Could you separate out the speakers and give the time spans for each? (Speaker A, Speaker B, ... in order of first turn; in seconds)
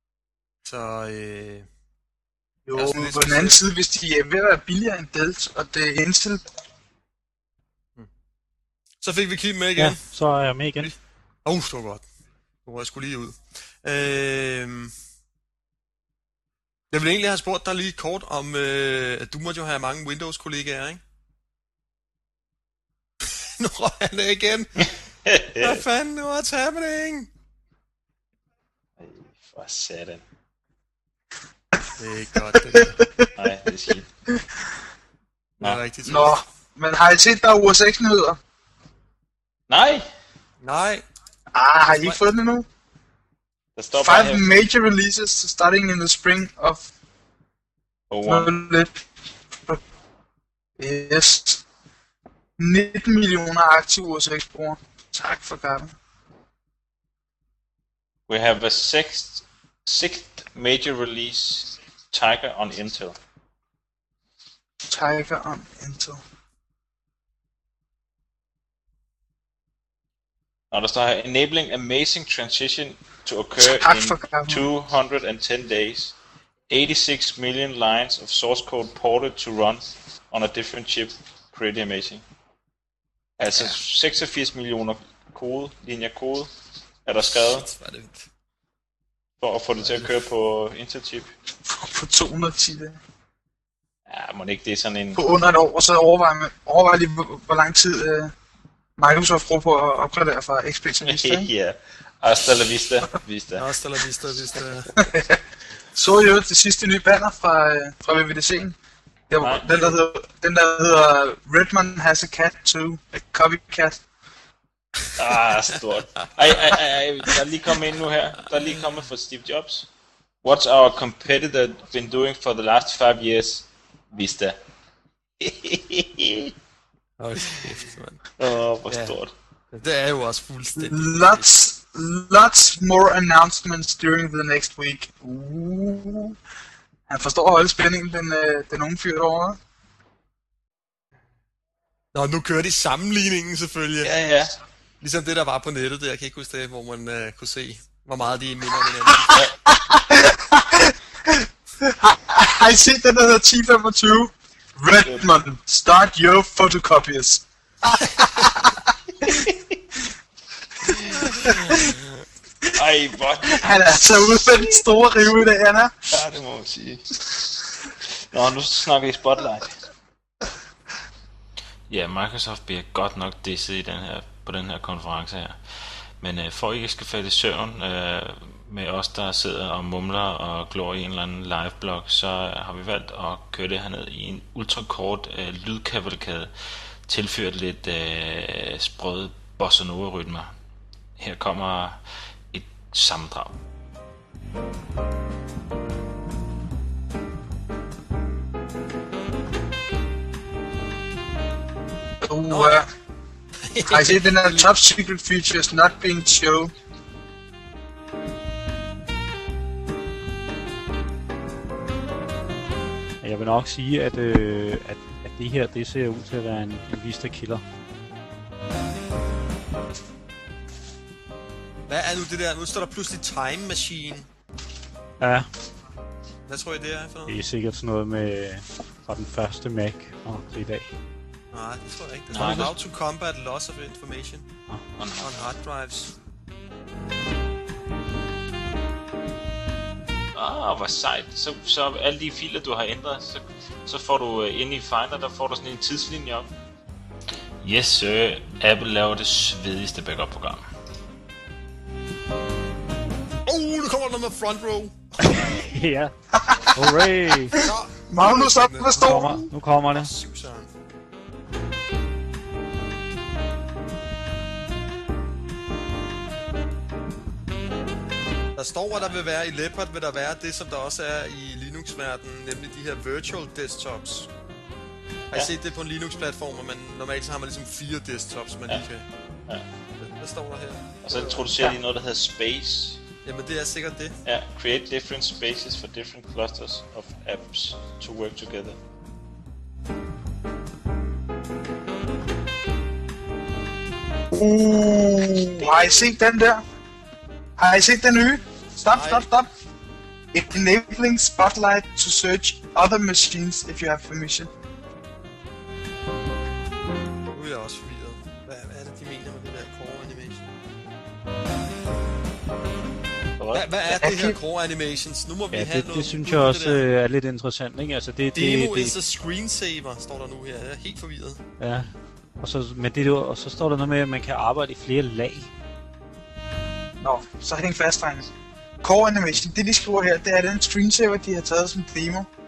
Speaker A: 0.6-1.7, 2.8-3.6, 9.0-10.2, 10.8-12.1, 12.6-14.9, 16.9-21.0, 23.4-24.7, 25.6-27.3, 32.0-33.0, 35.6-36.4, 40.6-41.0, 42.0-42.2, 87.3-88.3, 89.8-90.1, 103.5-104.9, 127.2-128.2, 128.9-129.2, 129.7-131.5, 142.1-144.1, 145.0-149.4, 202.5-202.8, 203.7-204.7, 221.9-224.3, 226.5-227.4, 231.5-234.5, 235.2-236.1, 253.4-254.9, 257.5-260.7, 268.5-274.3, 275.3-279.1, 279.9-281.8, 283.2-284.2, 298.9-299.3, 307.3-310.6, 313.5-316.9, 318.3-321.4
Speaker B: 2.6-6.4, 32.7-33.3, 36.0-38.4, 41.5-42.6, 44.0-46.8, 48.2-49.0, 50.8-51.6, 52.6-55.9, 64.9-66.2, 73.6-74.7, 91.7-93.0, 95.2-98.3, 99.0-101.5, 105.0-105.4, 105.9-108.8, 109.3-114.0, 130.8-136.3, 137.1-139.6, 149.3-157.4, 158.0-158.6, 161.4-161.9, 163.5-166.2, 202.2-202.9, 203.9-206.7, 256.4-256.7, 257.6-259.3, 294.3-296.6, 297.6-299.5, 300.3-304.5, 314.0-314.4, 327.0-328.2, 328.8-332.3
Speaker C: 9.7-10.9, 213.2-217.6, 225.2-225.5, 227.3-230.9, 232.3-232.7, 255.2-256.1, 256.7-257.6, 258.9-260.1, 315.5-319.0, 321.6-325.5
Speaker D: 24.8-25.8, 29.0-30.2, 33.4-34.1, 39.7-40.1, 43.8-44.5, 48.1-48.6, 58.3-63.2, 70.7-76.1, 76.7-82.2, 83.4-86.5, 87.0-87.7, 89.4-91.3, 94.1-95.2, 101.0-103.6, 109.4-110.0, 115.2-119.9, 120.4-124.6, 125.4-126.5, 128.4-129.3, 144.0-144.5, 155.0-155.3, 159.2-159.8, 160.8-161.2, 162.7-164.8, 166.1-167.1, 168.2-169.7, 171.9-186.5, 187.1-190.5, 191.2-192.0, 192.5-193.6, 232.3-232.8, 234.9-235.3, 240.3-246.5, 247.6-250.6, 281.0-283.0, 284.2-288.8, 295.6-296.1, 313.4-314.0